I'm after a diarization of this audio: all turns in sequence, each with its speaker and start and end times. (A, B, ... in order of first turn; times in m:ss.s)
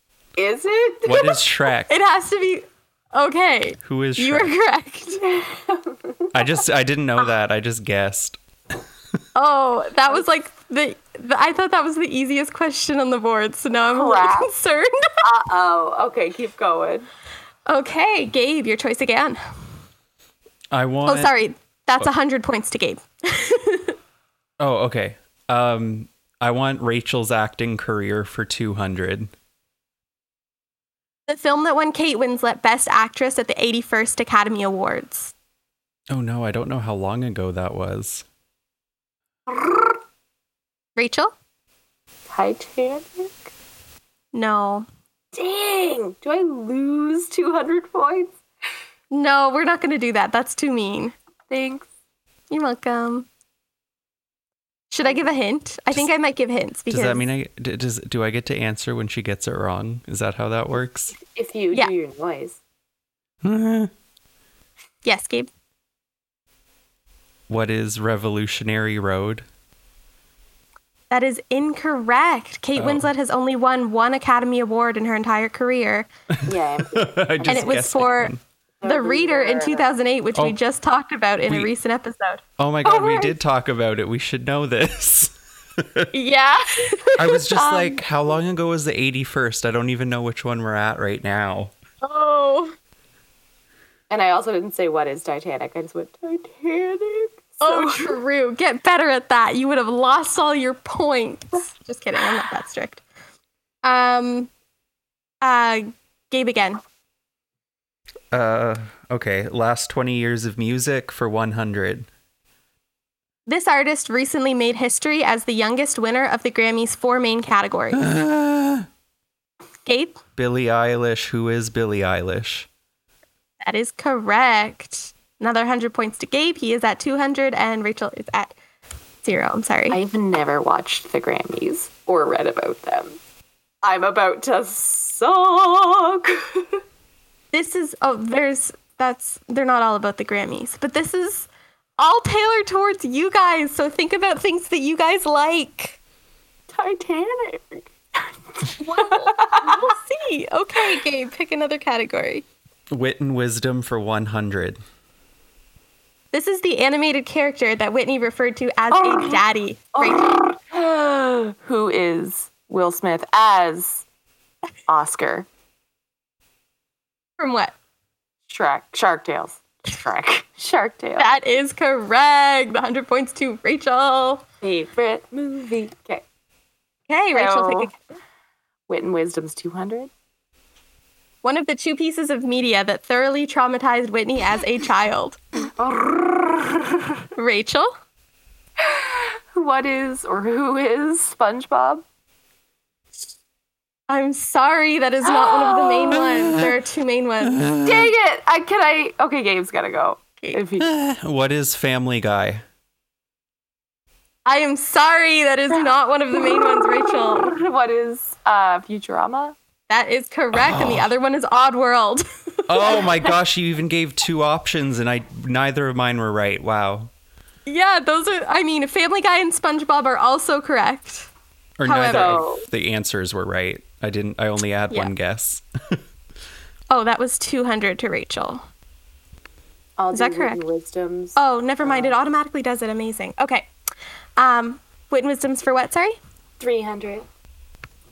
0:00.4-0:01.4 A
0:01.0-0:01.9 B
0:01.9-0:05.2 C
0:03.8-0:04.5 B
0:05.2-0:06.4 A
0:06.3-0:08.4 B
0:09.4-0:14.9 C
0:13.8-0:14.5 A
0:15.2-0:17.1 A
0:17.7-0:19.4 C
0:20.7-0:21.3 B
0:21.1-0:24.0 C
0:24.6-0:29.3 B
0:31.3-0:35.3 C
0:36.1-0:38.3 B
0:39.5-0:39.9 A
0:41.0-0:41.3 C
0:42.3-0:43.5 A
0:44.3-0:44.9 C
0:45.3-0:48.4 A
0:49.1-0:51.1 C
0:51.5-0:51.9 A
0:52.5-0:53.3 C
0:54.9-0:57.3 C
0:56.9-1:01.2 B
1:01.2-1:02.6 A
1:03.4-1:03.9 B
1:05.0-1:05.5 C
1:07.5-1:09.4 B
1:11.1-1:16.1 C
1:12.8-1:13.1 B
1:16.3-1:18.4 B
1:16.5-1:17.9 A
1:17.5-1:18.3 C
1:18.8-1:19.8 A
1:18.8-1:22.4 C
1:22.6-1:26.1 B
1:22.8-1:23.3 A
1:26.1-1:27.4 C
1:27.2-1:31.7 B
1:27.5-1:28.0 A
1:32.0-1:32.7 C
1:34.1-1:38.2 A
1:37.6-1:43.0 C
1:43.8-1:44.5 C
1:45.4-1:46.8 C
1:48.3-1:52.1 B
1:53.5-1:58.0 C
1:57.9-1:58.9 B
1:59.8-2:00.2 C
2:00.4-2:02.7 B
2:03.6-2:08.6 C
2:09.2-2:10.0 C
2:09.9-2:13.2 A
2:13.8-2:16.8 A
2:17.5-2:26.0 C
2:26.7-2:29.8 A
2:28.8-2:32.4 C
2:32.9-2:34.8 B
2:36.3-2:40.4 C
2:38.9-2:39.4 A
2:40.0-2:44.0 A
2:44.9-2:45.5 A
2:47.4-2:47.7 C
2:48.5-2:51.3 A
2:51.2-2:54.4 C
2:54.6-2:56.2 A
2:57.1-2:58.0 C
2:57.3-2:57.9 A
2:58.9-3:00.1 A
3:01.4-3:05.4 C
3:05.8-3:07.2 A
3:07.4-3:07.9 C
3:08.8-3:12.0 A
3:14.1-3:17.6 C
3:15.2-3:16.2 A
3:16.2-3:16.7 B
3:17.5-3:18.1 B
3:17.8-3:20.9 A
3:20.8-3:22.6 B
3:24.5-3:27.5 C
3:25.7-3:29.6 A
3:29.9-3:33.3 C
3:30.6-3:31.1 B
3:32.7-3:37.1 B
3:37.7-3:41.3 C
3:41.8-3:46.0 B
3:41.8-3:42.4 C
3:42.1-3:42.7 A
3:46.9-3:48.6 C
3:50.0-3:52.2 A
3:50.1-3:50.6 C
3:51.4-3:53.7 C
3:54.4-3:56.2 C
3:56.6-3:57.2 A